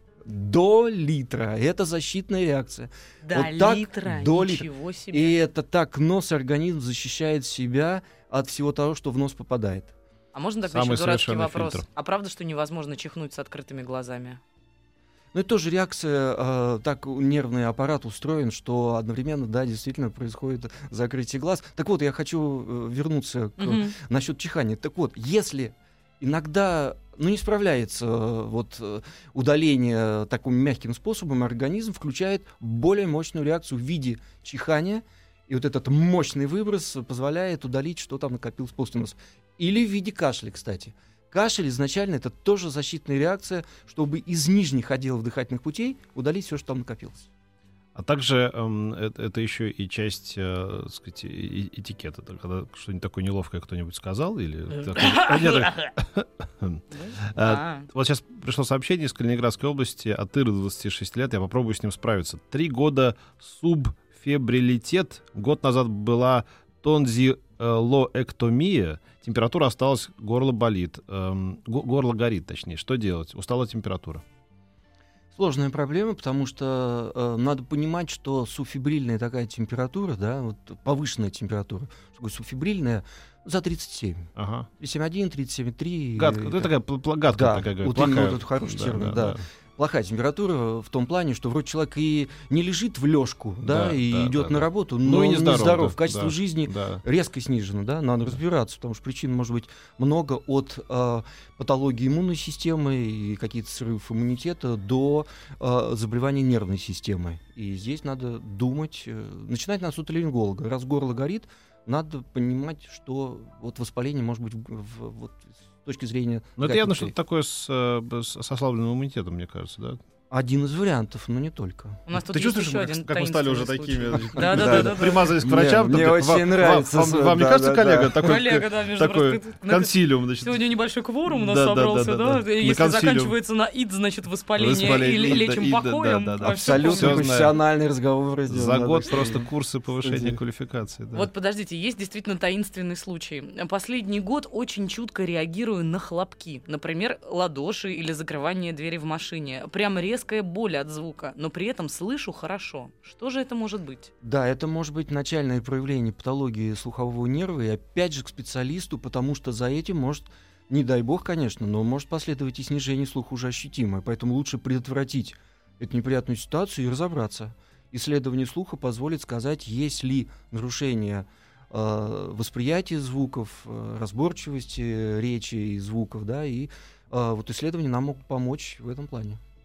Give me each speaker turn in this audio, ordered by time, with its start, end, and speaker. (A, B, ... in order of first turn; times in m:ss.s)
0:00.2-0:09.9 A
0:03.2-0:05.4 B
0:10.3-0:14.4 B
0:10.6-0:11.8 C
0:15.3-0:47.3 A
0:23.6-0:23.9 B
0:47.9-1:14.2 C
0:54.9-0:55.9 B
0:56.9-0:57.9 B
1:15.3-1:26.7 A
1:24.4-1:24.7 C
1:26.2-1:29.4 C
1:27.3-1:57.1 A
1:33.6-1:37.0 C
1:56.6-2:00.0 C
2:00.3-2:02.0 A
2:02.1-2:05.3 B
2:02.1-2:10.6 C
2:04.4-2:08.3 A
2:08.2-2:17.3 B
2:11.3-2:13.3 C
2:14.6-2:17.5 C
2:16.4-2:19.4 A
2:18.5-2:21.3 C
2:20.0-2:20.4 A
2:21.1-2:34.1 B
2:34.2-2:59.4 A